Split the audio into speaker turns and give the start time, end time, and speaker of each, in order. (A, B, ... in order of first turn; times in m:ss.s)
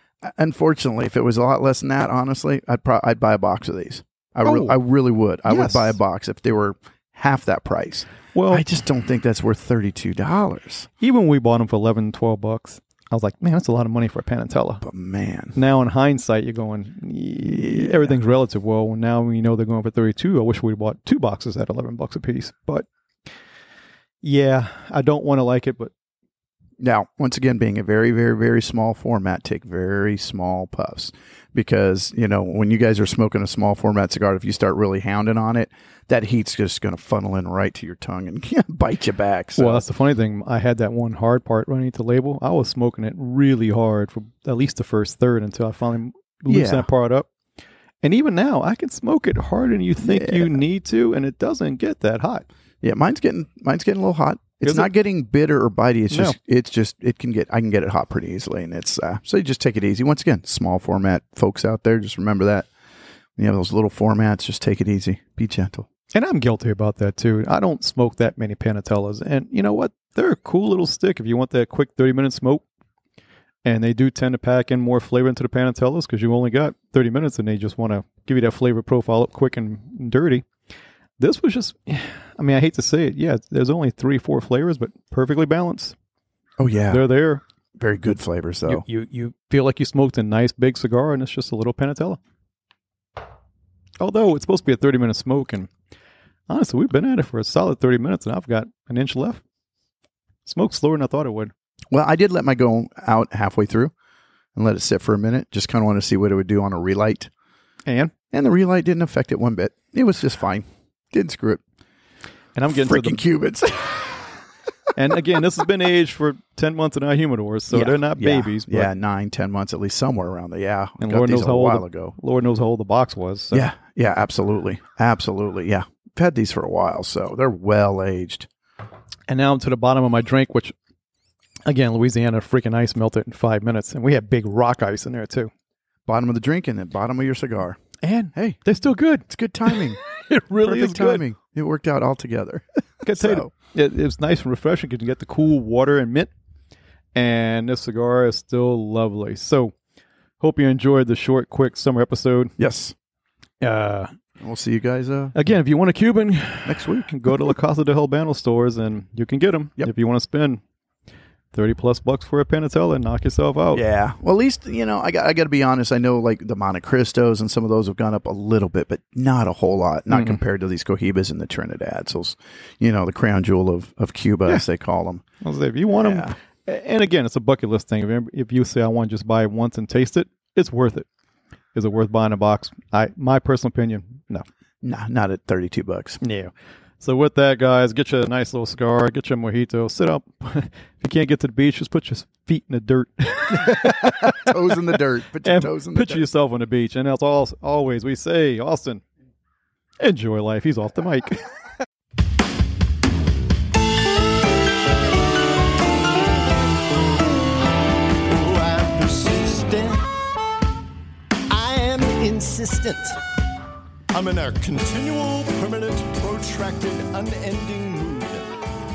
0:00.2-0:10.9 A
0:04.4-0:04.8 B
0:05.5-0:06.0 B
0:08.3-0:08.6 B
0:11.0-0:14.8 B
0:14.8-0:15.6 A
0:15.5-0:22.9 B
0:17.5-0:18.1 A
0:24.2-0:25.9 B
0:26.8-0:39.8 A
0:39.6-0:47.3 B
0:46.5-0:46.9 A
0:48.0-0:52.4 B
0:50.0-0:50.6 A
0:52.8-1:02.7 A
0:54.6-0:54.9 B
0:56.1-0:56.4 B
1:03.4-1:05.9 A
1:06.1-1:12.6 B
1:13.6-1:20.5 B
1:21.2-1:25.9 B
1:26.6-1:27.1 A
1:26.9-1:27.4 B
1:27.7-1:28.8 A
1:28.6-1:32.2 B
1:34.0-1:35.7 B
1:36.5-1:39.4 B
1:40.4-1:41.5 B
1:41.9-1:43.9 A
1:44.6-1:47.3 A
1:47.8-1:48.1 B
1:48.3-1:51.6 A
1:52.5-1:53.2 B
1:52.7-1:54.2 A
1:54.9-1:58.9 B
1:57.7-2:02.1 A
2:01.0-2:03.7 B
2:03.5-2:08.5 A
2:09.3-2:10.7 B
2:11.6-2:15.5 B
2:16.0-2:17.8 A
2:18.0-2:21.2 B
2:18.3-2:18.6 A
2:19.3-2:20.0 A
2:20.6-2:23.5 A
2:23.0-2:26.3 B
2:27.1-2:29.7 B
2:30.4-2:32.5 B
2:32.6-2:32.9 A
2:33.6-2:34.1 B
2:34.4-2:35.4 A
2:35.3-2:40.6 B
2:36.6-2:37.5 A
2:41.5-2:43.8 B
2:43.7-2:55.2 A
2:50.1-2:50.4 B
2:55.4-3:01.0 B
2:56.0-2:56.3 A
3:01.7-3:04.4 B
3:04.8-3:06.2 A
3:06.2-3:14.8 B
3:13.6-3:16.3 A
3:15.4-3:19.0 B
3:20.0-3:21.5 B
3:28.2-3:30.1 C
3:31.5-3:33.2 C
3:34.1-3:38.4 C